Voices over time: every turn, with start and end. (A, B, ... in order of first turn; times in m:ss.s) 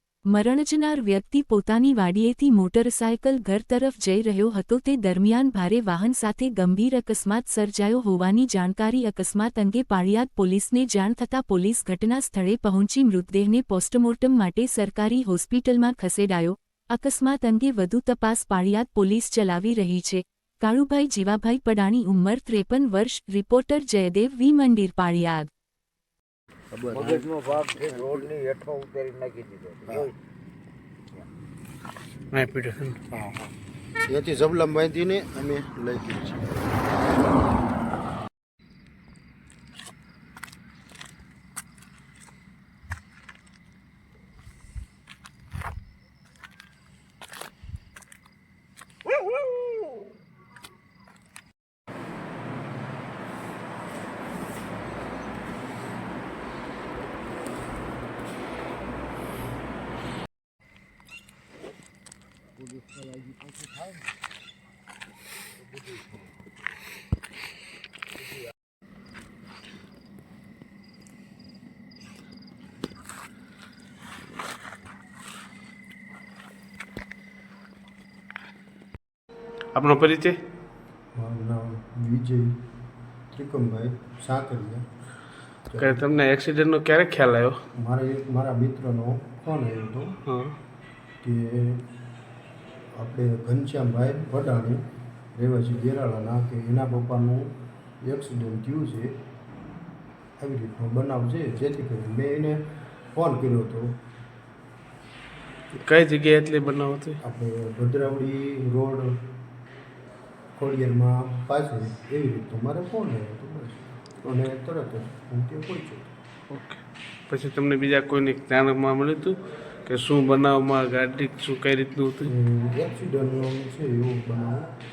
0:00.3-0:25.5 A
0:26.7-0:28.3 B
0:26.9-0:30.1 C
0:32.3-0:33.0 D
0:34.1-0:36.6 B
1:19.7-1:20.4 D
1:21.2-1:22.6 B
1:23.3-1:24.8 B
1:25.7-1:26.0 B
1:25.8-1:27.6 D
1:27.8-1:30.2 B
1:30.3-1:30.6 D
1:31.2-1:31.9 B
1:32.9-1:39.2 B
1:40.4-1:44.0 B
1:45.7-1:47.2 D
1:47.2-1:49.2 B
1:50.6-1:56.1 B
1:56.5-2:02.3 D
2:02.2-2:04.7 B